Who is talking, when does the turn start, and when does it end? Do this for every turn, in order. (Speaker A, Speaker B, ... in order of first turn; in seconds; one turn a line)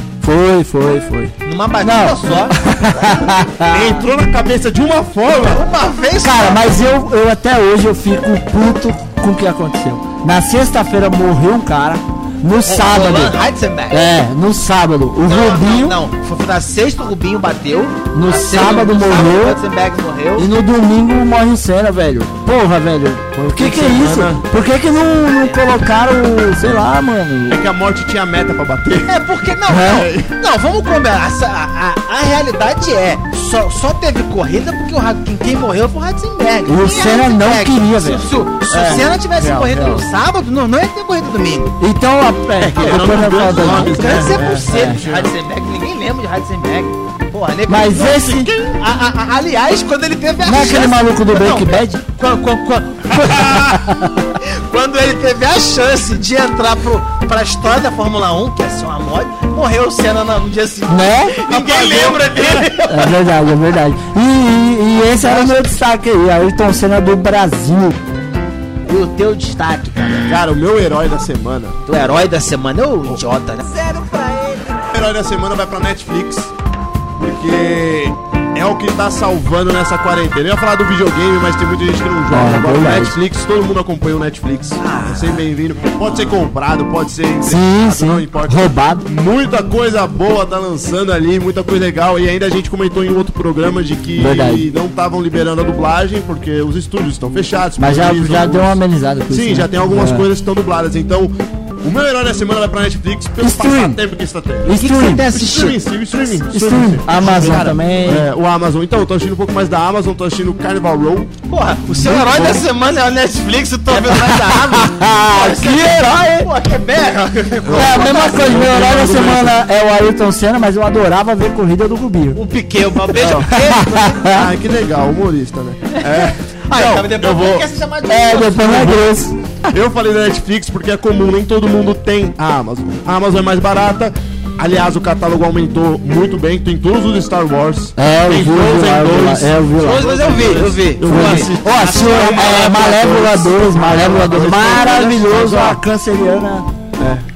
Speaker A: 0.2-4.0
Speaker B: 1.4-2.5
Speaker C: 3.7-5.7
Speaker B: 5.4-6.7
Speaker A: 6.2-13.3
Speaker B: 12.6-14.0
Speaker A: 13.9-16.0
Speaker B: 15.2-20.5
Speaker A: 18.1-19.6
Speaker A: 20.4-27.6
Speaker C: 23.3-24.4
Speaker B: 25.4-25.6
Speaker C: 27.5-29.2
Speaker B: 29.0-41.7
Speaker A: 29.7-30.1
Speaker C: 29.9-30.4
Speaker A: 36.7-39.1
Speaker C: 39.3-40.0
Speaker A: 41.8-45.0
Speaker C: 42.6-45.3
Speaker B: 42.8-63.1
Speaker A: 47.7-48.5
Speaker C: 47.9-48.7
Speaker A: 50.4-52.0
Speaker C: 53.2-53.6
Speaker A: 60.9-61.4
Speaker C: 61.5-62.7
Speaker A: 62.9-68.0
Speaker B: 65.2-65.6
Speaker B: 68.8-70.4
Speaker C: 70.3-71.8
Speaker B: 71.9-73.7
Speaker A: 73.6-74.8
Speaker C: 74.9-76.5
Speaker C: 77.2-104.8
Speaker A: 82.3-83.2
Speaker B: 84.8-86.4
Speaker A: 87.4-89.0
Speaker A: 94.2-94.7
Speaker A: 97.8-100.3
Speaker A: 103.4-104.0
Speaker A: 104.6-105.3
Speaker B: 104.8-105.8
Speaker C: 105.3-111.3
Speaker A: 106.5-108.2
Speaker B: 111.5-118.6
Speaker C: 111.8-112.7
Speaker A: 113.9-116.5
Speaker C: 117.6-119.6
Speaker A: 117.7-122.4
Speaker B: 122.3-124.2
Speaker C: 123.1-123.5
Speaker A: 123.2-124.5
Speaker C: 124.2-127.7
Speaker B: 125.9-128.9
Speaker A: 128.1-129.3
Speaker C: 128.6-145.8
Speaker A: 138.0-146.7
Speaker B: 139.8-145.1
Speaker C: 147.0-147.2